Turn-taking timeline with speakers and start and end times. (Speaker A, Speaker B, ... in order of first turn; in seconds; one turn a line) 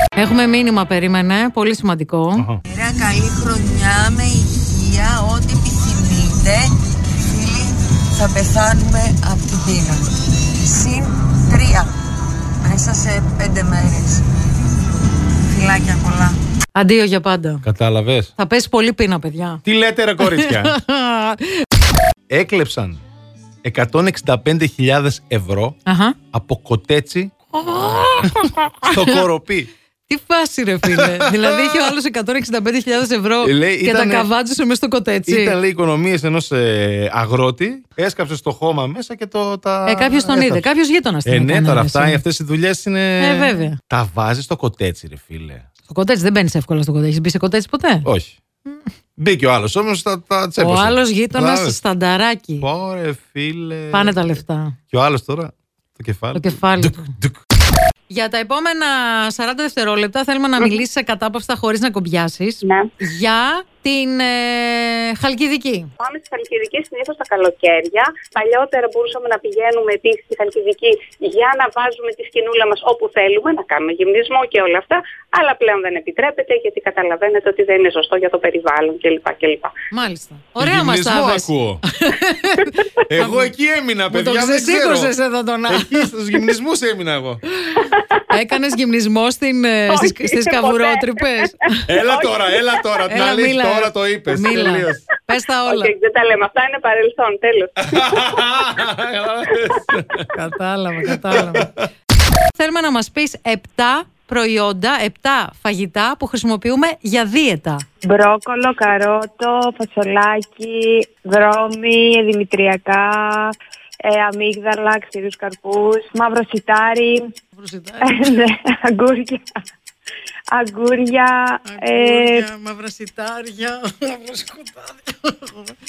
Speaker A: 0.1-2.5
Speaker B: 2.7-12.0
Speaker B: 12.6-14.3
Speaker B: 15.5-16.4
Speaker A: 16.8-17.7
Speaker C: 17.6-18.3
Speaker A: 18.4-19.6
Speaker C: 19.6-20.8
Speaker A: 20.2-21.5
Speaker C: 22.3-23.0
Speaker C: 23.6-25.8
Speaker A: 25.9-26.2
Speaker C: 26.3-29.7
Speaker A: 27.5-29.2
Speaker A: 30.1-35.6
Speaker C: 30.8-32.0
Speaker C: 33.4-34.3
Speaker C: 35.3-40.7
Speaker A: 39.9-42.2
Speaker C: 41.2-45.6
Speaker A: 43.2-43.8
Speaker A: 45.9-48.1
Speaker C: 48.0-48.4
Speaker C: 49.2-51.8
Speaker A: 50.6-52.7
Speaker C: 52.6-54.4
Speaker A: 53.9-54.8
Speaker C: 54.9-57.4
Speaker A: 56.3-57.1
Speaker A: 58.1-65.9
Speaker D: 62.6-62.9
Speaker D: 66.0-79.7
Speaker A: 79.9-83.5
Speaker C: 80.6-81.8
Speaker C: 83.1-85.1
Speaker A: 84.1-86.1
Speaker C: 85.7-87.4
Speaker A: 88.3-91.9
Speaker D: 89.9-91.2
Speaker C: 91.9-95.0
Speaker D: 92.0-92.5
Speaker A: 93.1-95.9
Speaker D: 95.7-98.3
Speaker C: 97.8-100.3
Speaker A: 100.3-101.7
Speaker C: 101.2-101.8
Speaker A: 102.6-107.8
Speaker E: 108.0-117.3
Speaker A: 117.6-118.3
Speaker E: 118.1-119.4
Speaker E: 120.5-122.5
Speaker A: 121.7-125.7